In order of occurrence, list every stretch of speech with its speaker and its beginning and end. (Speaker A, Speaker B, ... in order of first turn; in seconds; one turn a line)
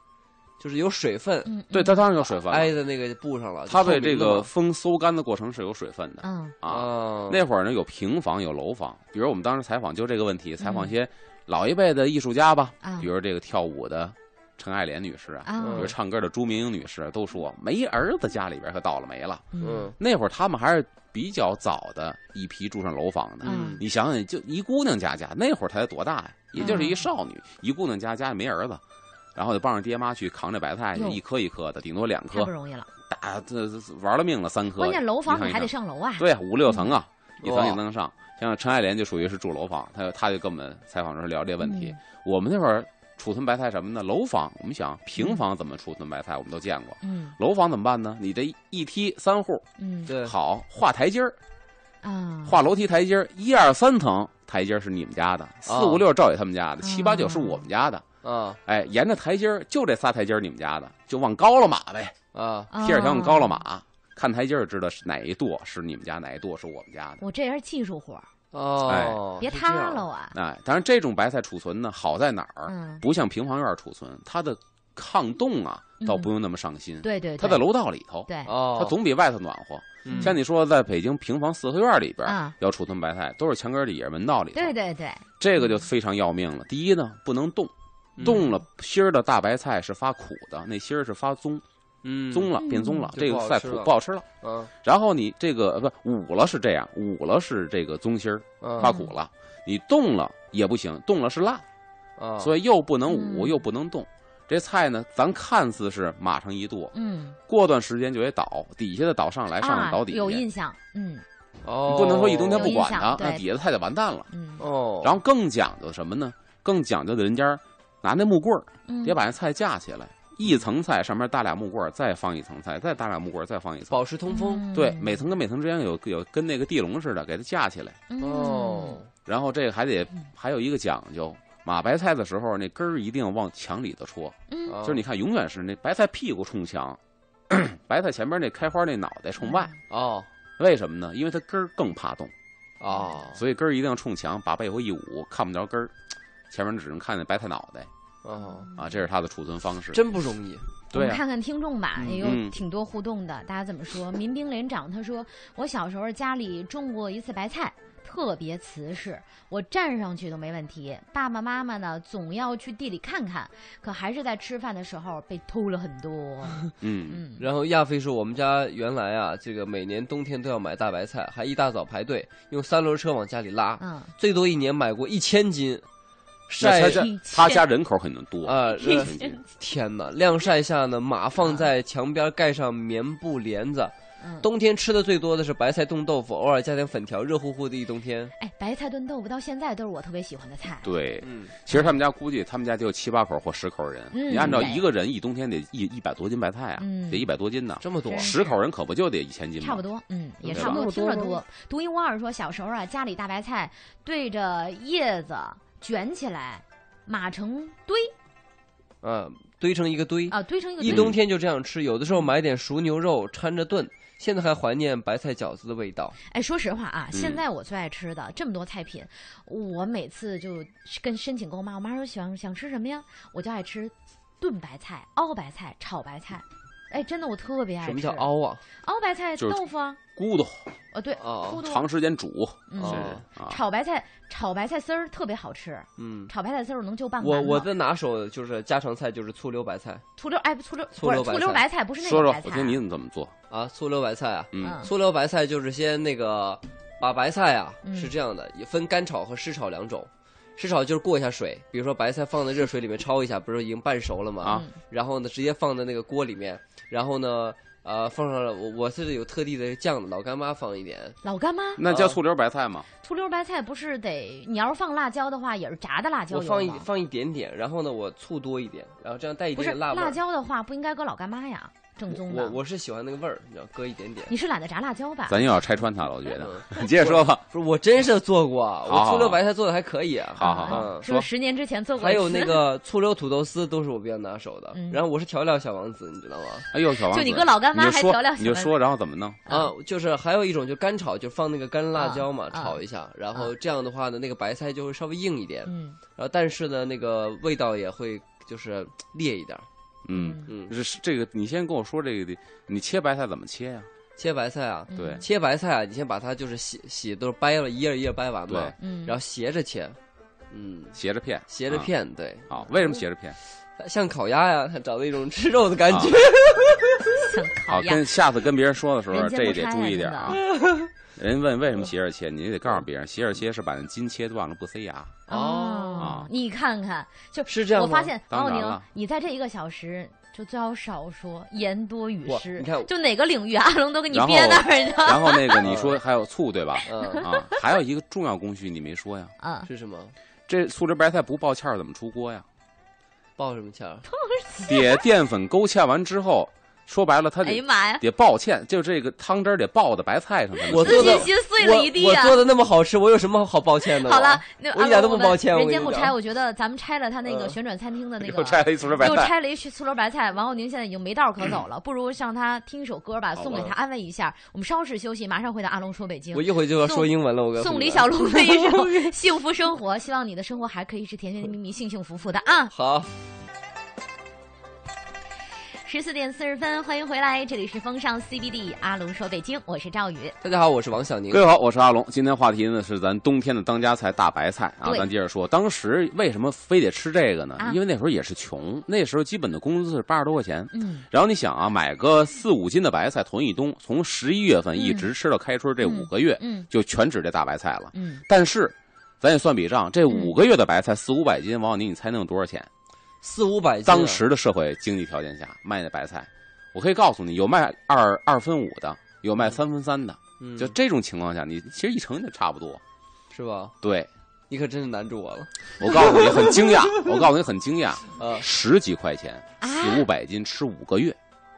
Speaker A: 0.6-1.5
Speaker B: 1.4-2.0
Speaker C: 1.7-2.7
Speaker A: 2.4-4.5
Speaker C: 3.7-28.8
Speaker B: 6.2-6.5
Speaker A: 6.7-7.4
Speaker B: 10.6-10.9
Speaker B: 12.8-13.1
Speaker B: 15.4-15.9
Speaker A: 15.6-15.9
Speaker B: 19.5-19.9
Speaker A: 19.6-19.9
Speaker A: 23.4-23.8
Speaker B: 23.4-23.8
Speaker B: 26.6-27.1
Speaker C: 29.3-32.5
Speaker B: 30.9-31.2
Speaker B: 32.3-32.9
Speaker C: 33.1-49.6
Speaker B: 34.8-36.9
Speaker A: 37.4-37.8
Speaker B: 41.6-42.0
Speaker B: 47.0-47.3
Speaker B: 49.8-50.1
Speaker A: 50.1-50.3
Speaker C: 50.2-51.4
Speaker B: 52.0-52.6
Speaker C: 52.5-58.0
Speaker A: 55.6-56.0
Speaker B: 56.8-57.6
Speaker A: 58.2-58.6
Speaker C: 58.6-62.1
Speaker A: 62.3-62.7
Speaker B: 62.7-63.6
Speaker C: 62.8-67.2
Speaker B: 67.2-68.3
Speaker A: 68.5-70.0
Speaker C: 68.8-69.2
Speaker B: 69.4-70.3
Speaker C: 70.3-84.7
Speaker B: 72.7-73.0
Speaker B: 76.0-76.3
Speaker B: 77.0-77.6
Speaker B: 78.3-78.5
Speaker A: 78.5-79.0
Speaker A: 80.0-80.3
Speaker B: 80.1-80.3
Speaker B: 82.2-82.5
Speaker B: 84.5-85.8
Speaker C: 85.4-91.6
Speaker A: 88.2-88.4
Speaker B: 88.2-88.5
Speaker A: 92.0-92.5
Speaker C: 92.3-94.2
Speaker B: 92.6-93.1
Speaker A: 93.1-94.7
Speaker C: 94.8-101.6
Speaker A: 98.6-98.9
Speaker B: 98.8-99.1
Speaker A: 102.2-102.5
Speaker C: 102.4-106.9
Speaker B: 103.1-103.6
Speaker B: 106.9-107.4
Speaker C: 107.5-110.4
Speaker B: 109.6-111.2
Speaker A: 111.6-112.7
Speaker C: 111.9-114.3
Speaker B: 112.5-113.4
Speaker B: 114.3-114.6
Speaker A: 114.6-115.2
Speaker C: 115.0-124.0
Speaker B: 118.9-119.2
Speaker A: 123.9-124.7
Speaker B: 124.3-125.2
Speaker C: 124.7-128.0
Speaker B: 128.1-129.0
Speaker A: 128.2-129.1
Speaker C: 129.2-139.7
Speaker B: 134.5-134.8
Speaker A: 134.7-135.0
Speaker B: 139.4-139.7
Speaker A: 139.9-140.3
Speaker C: 140.6-142.3
Speaker A: 142.8-143.4
Speaker C: 143.3-145.9
Speaker C: 146.5-147.9
Speaker A: 148.2-148.7
Speaker B: 148.4-148.7
Speaker C: 148.8-150.0
Speaker A: 149.9-150.7
Speaker C: 150.9-151.2
Speaker B: 150.9-167.4
Speaker C: 152.1-152.6
Speaker C: 166.8-167.2
Speaker A: 167.4-175.8
Speaker B: 173.8-174.1
Speaker A: 176.5-177.1
Speaker C: 176.6-179.4
Speaker B: 176.9-177.7
Speaker A: 178.4-188.3
Speaker B: 178.7-179.4
Speaker B: 184.2-184.5
Speaker B: 188.4-190.9
Speaker C: 190.8-199.8
Speaker A: 191.2-191.6
Speaker B: 191.7-192.0
Speaker B: 194.1-194.8
Speaker A: 194.4-194.7
Speaker B: 196.8-197.3
Speaker A: 197.8-198.4
Speaker B: 198.1-198.6
Speaker B: 199.6-208.1
Speaker A: 200.4-201.4
Speaker C: 200.5-200.9
Speaker A: 209.0-216.2
Speaker B: 210.3-211.1
Speaker C: 210.8-211.2
Speaker B: 216.3-228.3
Speaker C: 217.1-217.4
Speaker A: 227.8-228.6
Speaker B: 228.8-230.0
Speaker C: 230.2-230.7
Speaker B: 230.9-231.8
Speaker A: 231.2-231.6
Speaker C: 231.6-233.6
Speaker B: 232.7-237.7
Speaker A: 232.8-233.2
Speaker A: 236.0-236.3
Speaker A: 237.2-240.0
Speaker B: 240.2-242.8
Speaker A: 240.9-241.6
Speaker C: 242.0-243.3
Speaker A: 243.5-261.2
Speaker C: 244.5-244.8
Speaker B: 244.6-244.9
Speaker B: 247.8-248.1
Speaker C: 254.4-254.7
Speaker B: 261.2-261.8
Speaker C: 261.8-262.9
Speaker A: 261.9-262.2
Speaker B: 263.0-266.8
Speaker A: 266.3-270.2
Speaker B: 269.6-272.6
Speaker A: 272.1-274.3
Speaker B: 274.3-275.5
Speaker C: 275.3-277.4
Speaker A: 276.4-281.1
Speaker C: 278.9-279.4
Speaker C: 280.4-281.3
Speaker B: 280.4-282.6
Speaker A: 282.0-286.7
Speaker B: 284.7-285.0
Speaker C: 286.7-289.4
Speaker B: 286.9-288.7
Speaker B: 289.5-289.7
Speaker A: 289.5-299.6
Speaker B: 291.9-292.8
Speaker B: 295.6-296.0
Speaker C: 300.0-303.9
Speaker B: 300.1-300.5
Speaker A: 300.5-300.7
Speaker A: 304.2-310.0
Speaker B: 304.9-305.2
Speaker C: 304.9-305.2
Speaker C: 308.5-308.7
Speaker B: 308.8-309.2
Speaker A: 310.5-310.9
Speaker C: 310.9-311.9
Speaker A: 311.5-312.6
Speaker C: 312.5-313.4
Speaker A: 313.8-317.3
Speaker C: 315.9-316.1
Speaker B: 317.1-318.1
Speaker C: 317.7-320.4
Speaker B: 319.1-320.4
Speaker A: 320.3-320.9
Speaker C: 321.1-325.2
Speaker A: 325.3-326.1
Speaker B: 325.3-335.6
Speaker C: 326.0-326.3
Speaker A: 327.5-328.1
Speaker C: 328.3-328.8
Speaker A: 332.2-332.9
Speaker C: 334.1-339.3
Speaker A: 335.6-336.0
Speaker B: 336.8-337.6
Speaker A: 336.9-337.3
Speaker B: 339.4-339.7
Speaker A: 339.6-340.1
Speaker C: 340.5-342.4
Speaker A: 343.4-344.0
Speaker B: 344.1-345.0
Speaker C: 344.7-351.3
Speaker B: 347.4-348.0
Speaker A: 350.7-356.1
Speaker B: 350.7-352.4
Speaker B: 353.9-372.7
Speaker A: 357.2-357.6
Speaker C: 358.2-359.3
Speaker C: 363.4-363.7
Speaker A: 366.3-369.1
Speaker A: 372.7-373.1
Speaker B: 375.8-380.3
Speaker A: 380.4-381.4
Speaker C: 381.3-402.7
Speaker B: 390.7-391.1
Speaker B: 394.8-395.1
Speaker B: 395.8-396.7
Speaker B: 397.9-398.2
Speaker B: 400.1-400.4
Speaker A: 403.2-404.2
Speaker C: 403.8-412.8
Speaker A: 410.4-410.7
Speaker A: 413.3-413.7
Speaker C: 413.8-414.1
Speaker A: 414.5-417.2
Speaker C: 415.8-421.2
Speaker A: 418.1-418.5
Speaker B: 419.6-420.1